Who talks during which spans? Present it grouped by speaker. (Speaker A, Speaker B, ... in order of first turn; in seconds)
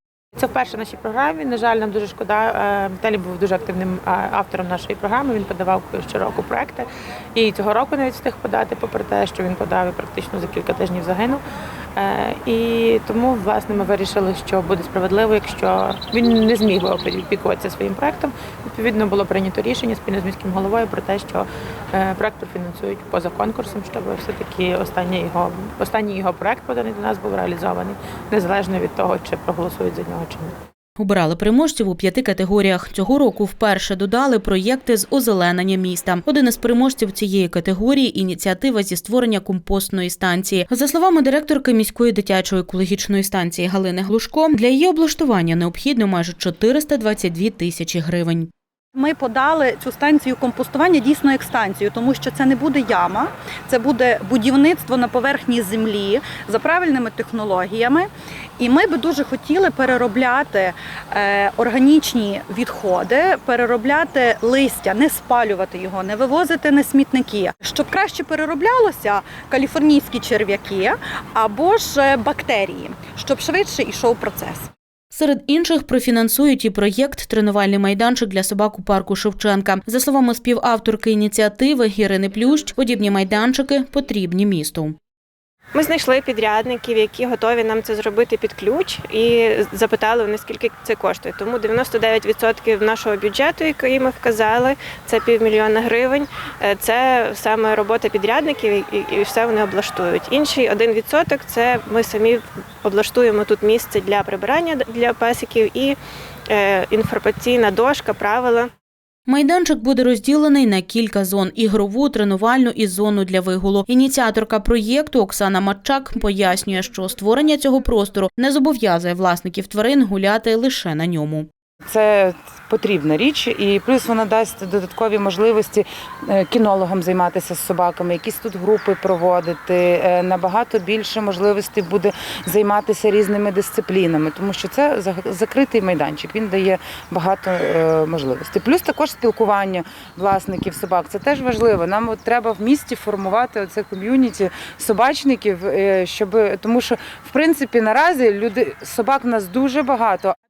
Speaker A: 0.4-11.4, 12.0-30.6
Speaker B: 31.0-48.5, 75.1-85.0, 109.3-121.5
Speaker C: 49.0-58.1, 58.6-74.7
Speaker D: 85.8-106.0, 106.5-108.7
Speaker E: 121.9-150.3